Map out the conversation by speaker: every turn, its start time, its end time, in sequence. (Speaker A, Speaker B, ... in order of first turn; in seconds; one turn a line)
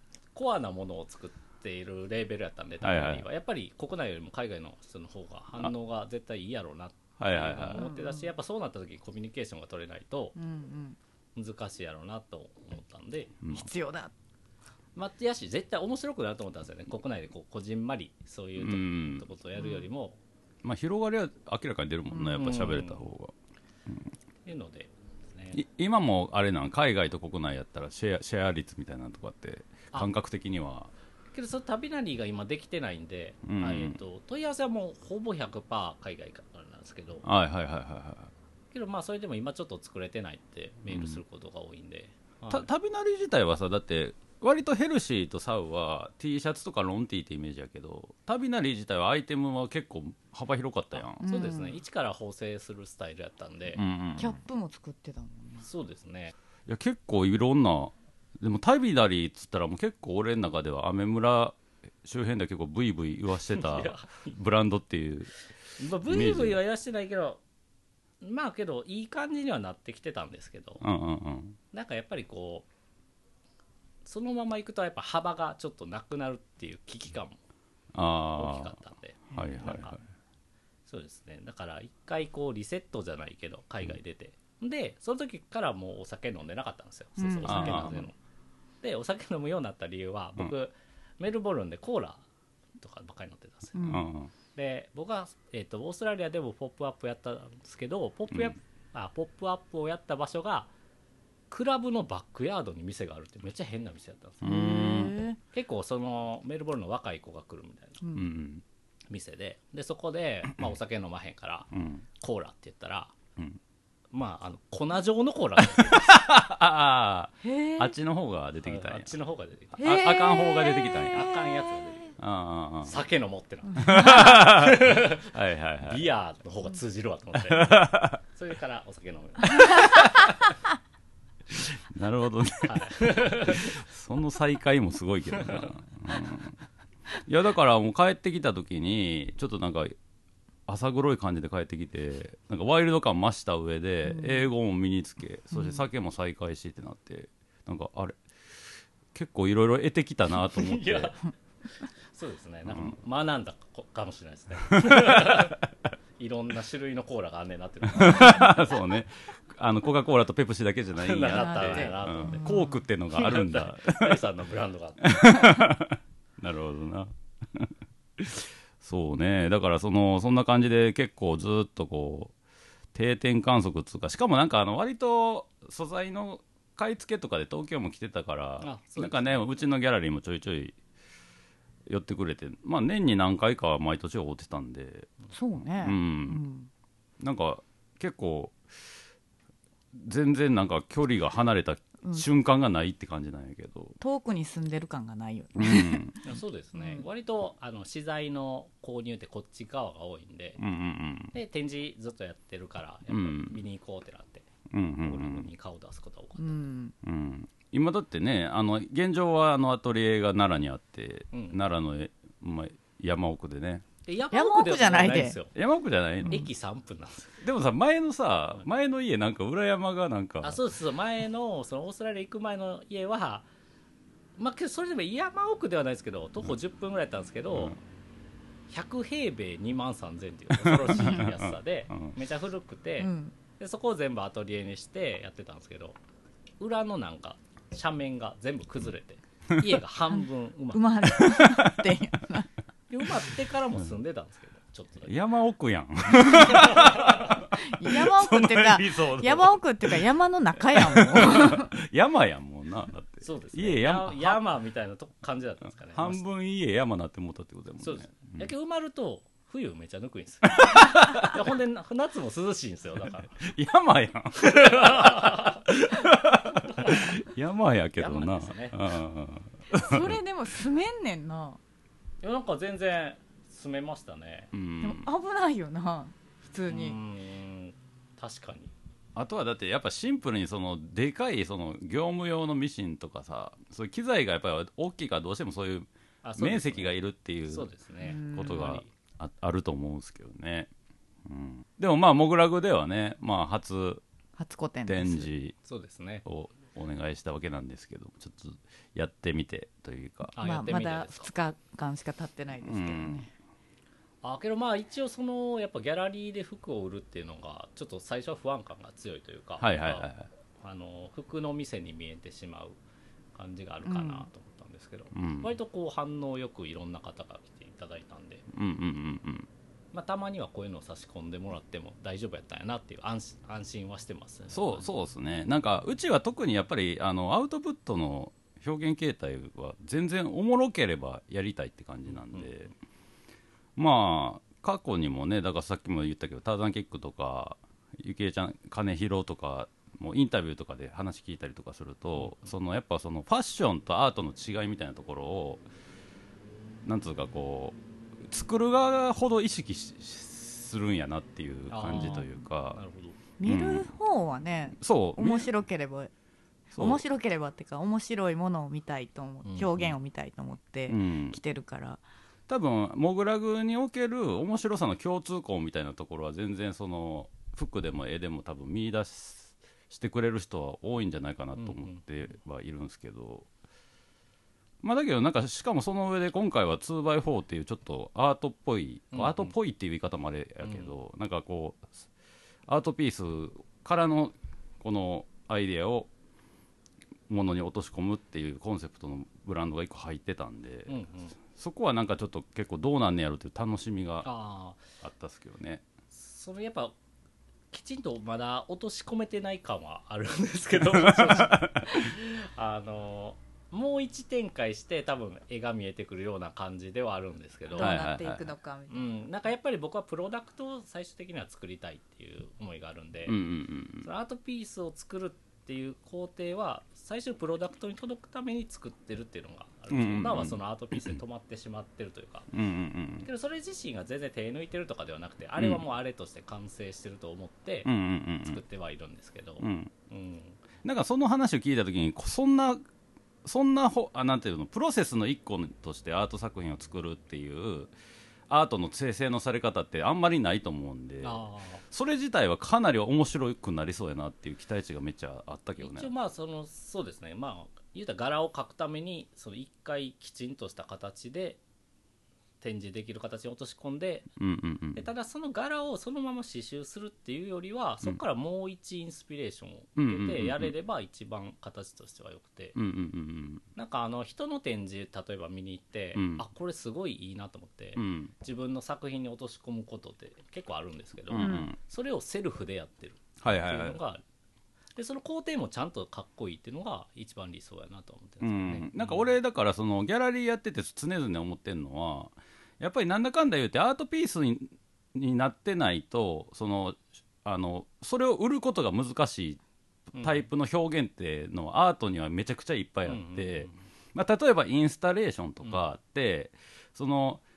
Speaker A: 0.3-10.4
Speaker B: 2.8-3.3
Speaker B: 7.2-7.8
Speaker C: 7.8-8.3
Speaker C: 10.4-11.0
Speaker A: 11.4-13.4
Speaker C: 13.5-14.1
Speaker A: 15.0-20.2
Speaker B: 18.6-19.3
Speaker C: 19.6-19.9
Speaker B: 20.6-23.3
Speaker A: 22.3-23.1
Speaker A: 24.5-25.6
Speaker B: 25.5-30.9
Speaker A: 31.3-37.2
Speaker B: 33.5-34.0
Speaker B: 37.2-38.3
Speaker A: 38.7-42.7
Speaker B: 40.9-41.2
Speaker B: 42.5-51.2
Speaker C: 51.2-51.8
Speaker A: 51.2-53.8
Speaker B: 53.8-54.4
Speaker C: 54.2-55.7
Speaker A: 55.6-56.4
Speaker B: 56.7-65.3
Speaker A: 63.5-64.3
Speaker A: 65.8-67.4
Speaker B: 66.0-66.6
Speaker A: 68.2-70.8
Speaker B: 70.8-71.6
Speaker A: 71.7-72.7
Speaker A: 74.0-77.4
Speaker B: 77.9-78.8
Speaker A: 78.3-80.0
Speaker B: 79.3-80.0
Speaker A: 80.9-88.2
Speaker C: 87.2-88.0
Speaker B: 87.5-88.0
Speaker A: 88.8-92.2
Speaker A: 92.8-93.9
Speaker C: 93.8-94.0
Speaker B: 93.8-94.3
Speaker A: 94.5-100.7
Speaker A: 101.5-104.5
Speaker B: 104.4-105.2
Speaker C: 104.4-105.4
Speaker A: 105.5-108.0
Speaker C: 108.0-108.3
Speaker B: 108.1-108.6
Speaker A: 109.1-113.2
Speaker B: 111.7-112.0
Speaker A: 114.1-116.2
Speaker B: 115.6-119.2
Speaker C: 117.4-117.9
Speaker A: 118.6-120.0
Speaker B: 119.7-121.4
Speaker C: 119.8-122.1
Speaker A: 121.1-122.1
Speaker B: 122.2-123.0
Speaker A: 122.8-125.3
Speaker B: 123.8-126.1
Speaker C: 123.8-124.4
Speaker A: 125.9-130.1
Speaker B: 127.5-128.2
Speaker B: 129.6-130.2
Speaker B: 131.5-136.6
Speaker A: 132.7-133.8
Speaker A: 135.3-135.7
Speaker B: 137.3-140.0
Speaker B: 140.7-148.2
Speaker C: 144.1-144.5
Speaker C: 145.5-145.9
Speaker B: 149.1-151.1
Speaker A: 150.5-151.3
Speaker A: 152.1-155.6
Speaker B: 152.7-152.9
Speaker B: 154.8-155.4
Speaker A: 156.2-158.7
Speaker B: 157.9-164.2
Speaker A: 161.0-162.5
Speaker C: 161.3-162.8
Speaker A: 163.1-165.2
Speaker B: 165.0-172.3
Speaker B: 172.9-180.8
Speaker A: 178.6-179.4
Speaker B: 181.9-185.1
Speaker C: 185.3-186.7
Speaker B: 185.6-186.4
Speaker B: 187.2-188.6
Speaker B: 189.9-194.0
Speaker C: 194.0-196.2
Speaker B: 195.6-196.2
Speaker A: 196.2-200.6
Speaker C: 196.8-197.1
Speaker B: 200.6-201.3
Speaker A: 201.3-204.5
Speaker B: 203.1-203.6
Speaker B: 204.7-205.5
Speaker A: 205.0-206.5
Speaker C: 206.4-206.9
Speaker B: 207.0-213.8
Speaker A: 211.3-211.6
Speaker A: 214.1-215.5
Speaker C: 214.3-215.4
Speaker B: 215.5-216.5
Speaker A: 216.3-217.4
Speaker B: 217.4-220.6
Speaker A: 220.4-223.5
Speaker A: 224.4-227.8
Speaker A: 228.7-236.0
Speaker B: 230.6-232.1
Speaker C: 233.0-233.3
Speaker A: 236.6-240.9
Speaker C: 240.7-242.5
Speaker B: 241.1-241.8
Speaker A: 242.9-245.2
Speaker B: 245.1-250.0
Speaker A: 246.4-247.4
Speaker C: 247.6-251.7
Speaker B: 250.6-254.4
Speaker A: 253.2-256.2
Speaker B: 255.9-258.5
Speaker A: 257.8-263.3
Speaker B: 260.5-261.4
Speaker B: 263.4-270.2
Speaker A: 264.4-265.6
Speaker A: 266.6-267.1
Speaker A: 268.0-268.8
Speaker C: 269.7-271.6
Speaker A: 272.2-274.5
Speaker B: 274.5-275.1
Speaker C: 274.8-277.0
Speaker A: 276.7-278.7
Speaker B: 279.1-287.7
Speaker A: 286.2-288.9
Speaker C: 288.0-288.8
Speaker B: 288.3-290.7
Speaker B: 291.2-294.0
Speaker C: 294.4-295.3
Speaker B: 294.9-295.6
Speaker A: 295.6-296.2
Speaker B: 296.2-300.4
Speaker A: 300.4-301.3
Speaker C: 300.4-303.3
Speaker B: 302.6-303.3
Speaker A: 304.2-312.8
Speaker B: 309.6-310.3
Speaker A: 313.4-318.4
Speaker C: 313.9-314.3
Speaker B: 315.1-315.5
Speaker B: 318.5-319.5
Speaker A: 319.9-324.9
Speaker B: 324.5-332.7
Speaker A: 332.1-332.5
Speaker B: 333.8-345.6
Speaker A: 342.2-342.5
Speaker B: 346.8-352.8
Speaker A: 351.7-353.2
Speaker C: 353.4-356.1
Speaker B: 353.4-353.9
Speaker B: 354.8-355.5
Speaker C: 356.7-362.0
Speaker B: 356.8-357.0
Speaker A: 359.4-359.9
Speaker B: 360.9-361.4
Speaker B: 362.5-373.5
Speaker A: 371.6-372.0
Speaker B: 374.8-382.0
Speaker A: 379.1-379.5
Speaker A: 380.6-380.9
Speaker B: 382.7-386.1
Speaker B: 387.3-394.3
Speaker A: 390.9-391.4
Speaker A: 394.2-394.9
Speaker B: 395.0-395.9
Speaker A: 396.1-396.9
Speaker A: 397.7-408.0
Speaker B: 400.9-401.9
Speaker C: 407.7-409.2
Speaker B: 407.8-408.5
Speaker A: 408.9-413.4
Speaker B: 413.3-414.1
Speaker A: 414.0-422.5
Speaker B: 419.9-421.2
Speaker B: 422.5-423.3
Speaker A: 423.2-427.9
Speaker B: 427.9-428.6
Speaker A: 428.4-430.6
Speaker B: 429.6-429.9
Speaker B: 430.8-432.8
Speaker B: 433.4-437.9
Speaker B: 438.5-446.1
Speaker A: 441.2-441.8
Speaker A: 445.8-451.6
Speaker A: 452.6-454.3
Speaker B: 454.4-455.0
Speaker A: 454.9-462.8
Speaker B: 460.0-460.7
Speaker B: 462.8-463.6
Speaker A: 463.8-474.2
Speaker B: 466.1-466.4
Speaker B: 468.0-468.3
Speaker B: 471.3-471.8
Speaker C: 471.4-471.7
Speaker B: 473.4-474.0
Speaker A: 475.0-479.3
Speaker B: 478.4-489.6
Speaker A: 490.1-490.4
Speaker B: 490.2-497.4
Speaker A: 493.1-493.8